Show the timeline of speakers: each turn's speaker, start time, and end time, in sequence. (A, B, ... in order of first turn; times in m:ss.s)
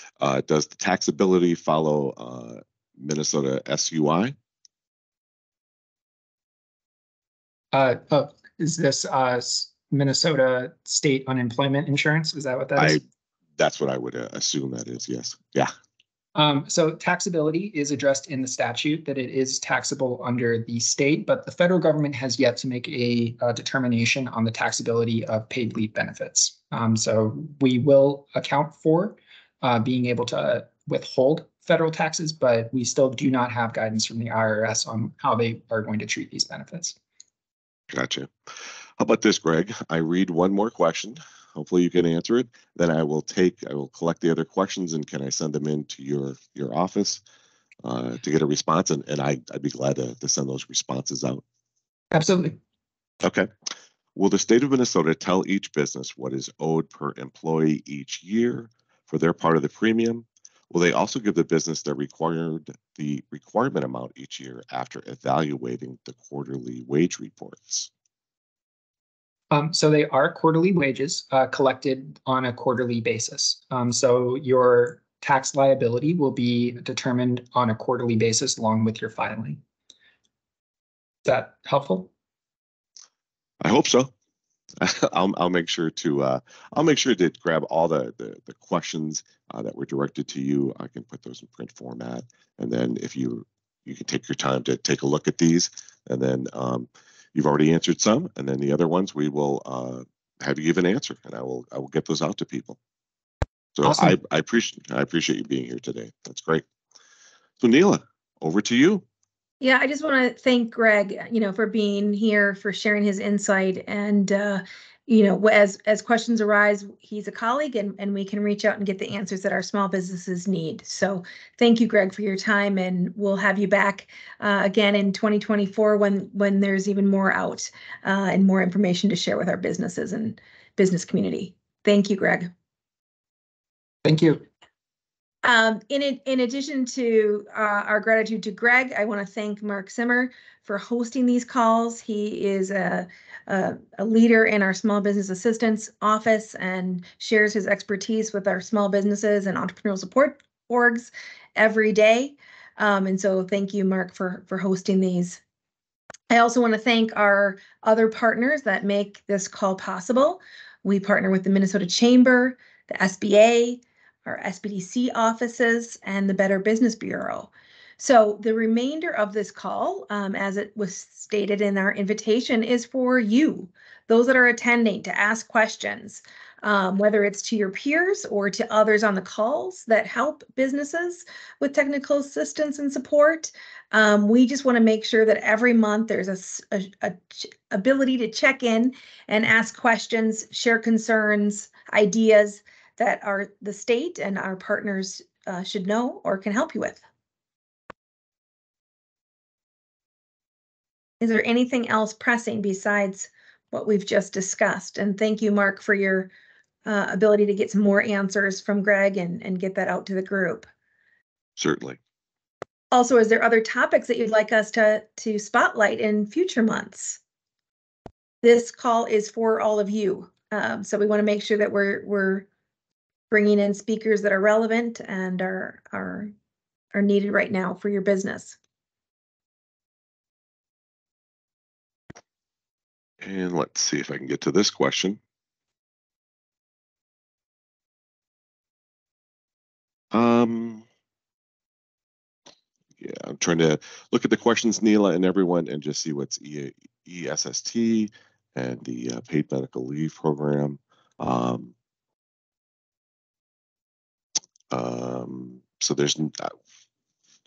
0:00.2-0:04.3 A
0:07.7-0:13.0 B
0:12.8-0:13.0 A
0:13.6-0:15.7 A
0:16.3-0:37.0 B
0:37.9-0:38.3 A
0:39.0-0:47.2 A
0:47.8-0:51.4 A
0:52.1-0:52.6 B
0:53.2-0:53.5 A
0:54.2-1:07.9 A
1:09.5-1:19.6 B
1:21.2-1:22.1 B
1:23.6-1:24.1 A
1:24.8-1:42.8 A
1:43.8-1:46.6 A
1:43.8-1:44.2 B
1:47.6-1:49.0 A
1:49.6-2:12.5 C
2:14.0-2:14.4 B
2:15.4-2:35.4 C
2:36.3-3:17.0 C
3:21.2-3:26.3 C
3:26.8-3:30.7 C
3:31.6-3:32.0 A
3:32.9-3:37.2 C
3:38.4-3:42.4 C
3:43.3-3:46.3 C
3:46.9-3:48.6 C
3:53.2-3:55.2 A
4:00.1-4:00.8 A
4:03.0-4:11.7 A
4:14.7-4:16.5 A